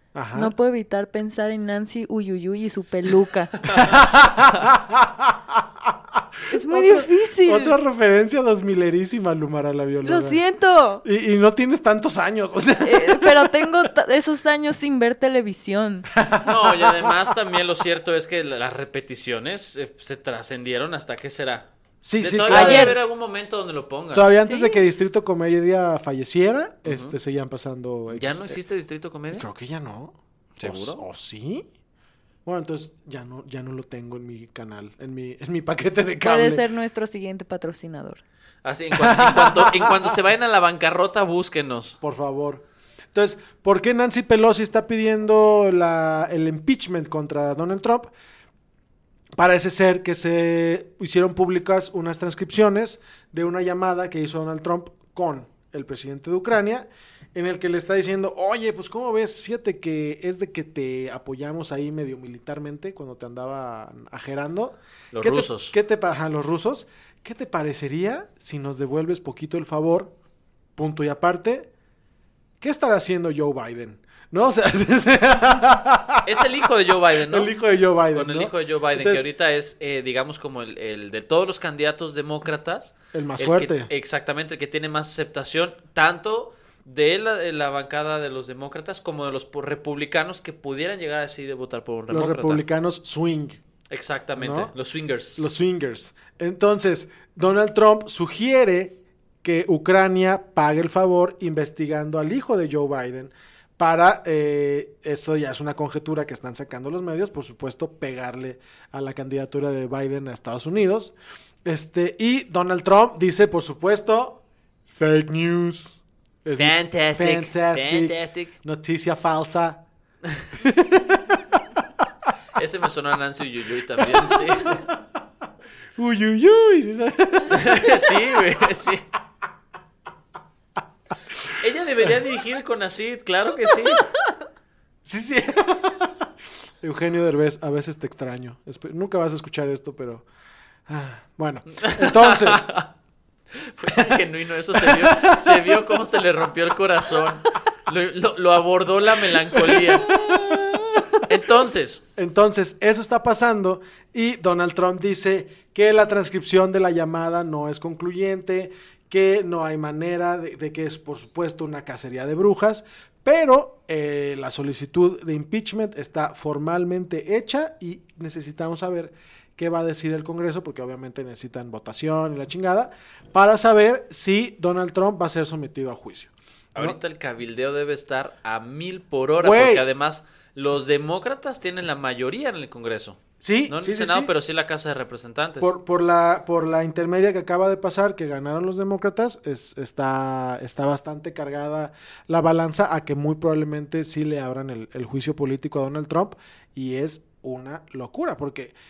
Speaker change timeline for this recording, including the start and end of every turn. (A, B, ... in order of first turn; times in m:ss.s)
0:00.1-0:00.5 A
0:00.3-0:03.6 B
0:03.7-0:10.4 A
0:06.5-0:07.8 B
0:10.0-0:11.0 B
0:11.0-0:13.7 A
0:12.8-0:16.1 B
0:16.1-0:17.2 A
0:16.4-0:24.3 C
0:22.0-0:23.0 A
0:22.5-0:23.0 B
0:24.1-0:28.6 A
0:24.4-0:24.8 B
0:26.8-0:27.2 C
0:28.1-0:29.5 C
0:29.3-0:31.7 A
0:30.6-0:31.0 C
0:32.4-0:36.6 A
0:36.2-0:38.2 B
0:38.6-0:42.0 C
0:39.0-0:40.1 A
0:42.0-0:48.1 A
0:49.4-1:10.1 A
1:05.1-1:05.7 C
1:10.8-1:11.7 A
1:12.6-1:16.5 A
1:16.2-1:17.6 C
1:17.3-1:19.3 A
1:18.1-1:32.6 C
1:23.1-1:23.9 A
1:32.1-1:33.6 A
1:33.9-1:35.5 C
1:34.4-1:34.7 A
1:35.4-1:59.8 A
1:56.6-1:58.6 C
2:00.6-2:01.6 A
2:02.6-2:04.9 C
2:04.0-2:04.9 A
2:06.0-2:08.2 A
2:07.5-2:09.1 C
2:11.6-2:14.1 C
2:15.0-2:16.3 A
2:16.8-2:20.3 A
2:20.9-2:22.7 A
2:21.8-2:22.9 C
2:23.6-2:30.6 C
2:24.7-2:26.0 A
2:29.5-2:31.0 A
2:31.2-2:32.0 C
2:32.2-2:57.0 A
2:56.8-3:05.7 C
2:59.4-2:59.9 A
3:03.4-3:04.3 A
3:05.6-3:18.8 A